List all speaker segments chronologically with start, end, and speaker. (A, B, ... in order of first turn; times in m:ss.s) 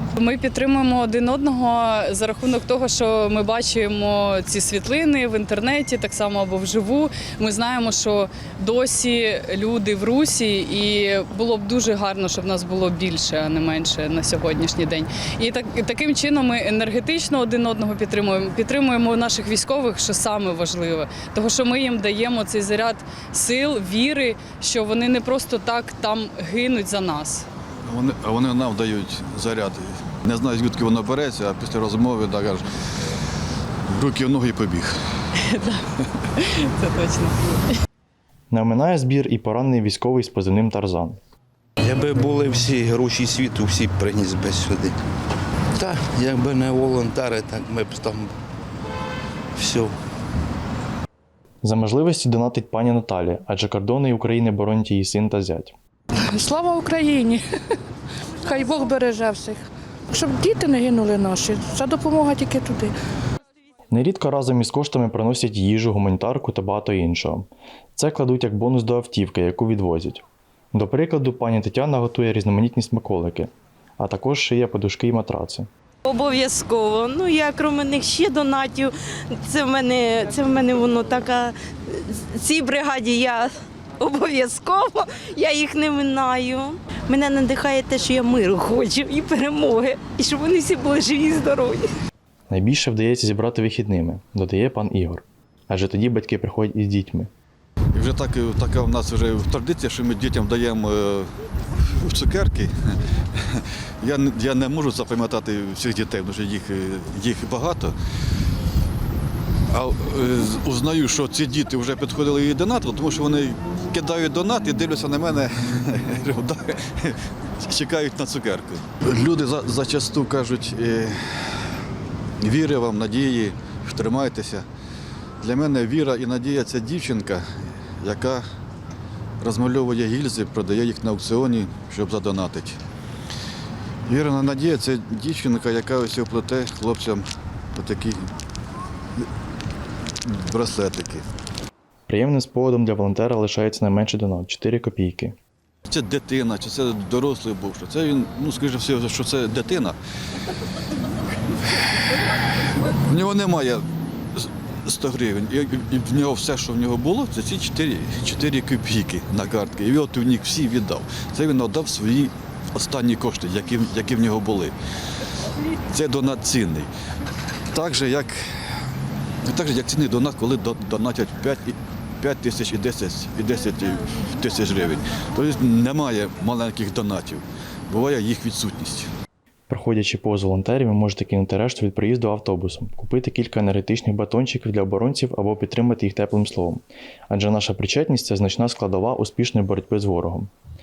0:00.2-0:27.5 A
0:27.9-0:32.6 B
0:33.9-0:34.9 B
0:35.4-0:35.8 A
0:36.4-0:37.6 A
0:38.5-0:41.2 C
0:41.8-0:45.0 D
0:45.8-0:48.3 D
0:49.6-0:49.9 D
0:51.6-0:55.8 C
0:56.3-0:57.4 E
0:58.4-0:59.6 E
1:00.1-1:02.9 E
1:03.9-1:15.7 C
1:16.0-1:31.9 F
1:32.5-1:37.3 C
1:37.9-1:42.7 B
1:43.3-1:48.0 B
1:49.7-2:01.7 B
2:02.4-2:04.6 B
2:05.4-2:07.4 B
2:08.0-2:08.4 B
2:09.4-2:12.8 B
2:14.1-2:18.3 B
2:20.2-2:21.2 B
2:22.1-2:25.4 C
2:25.9-2:30.0 B
2:33.1-2:33.8 B
2:34.4-2:44.8 B
2:45.9-2:46.9 B
2:47.7-2:48.4 B
2:49.4-2:59.1 B
2:59.7-3:10.5 C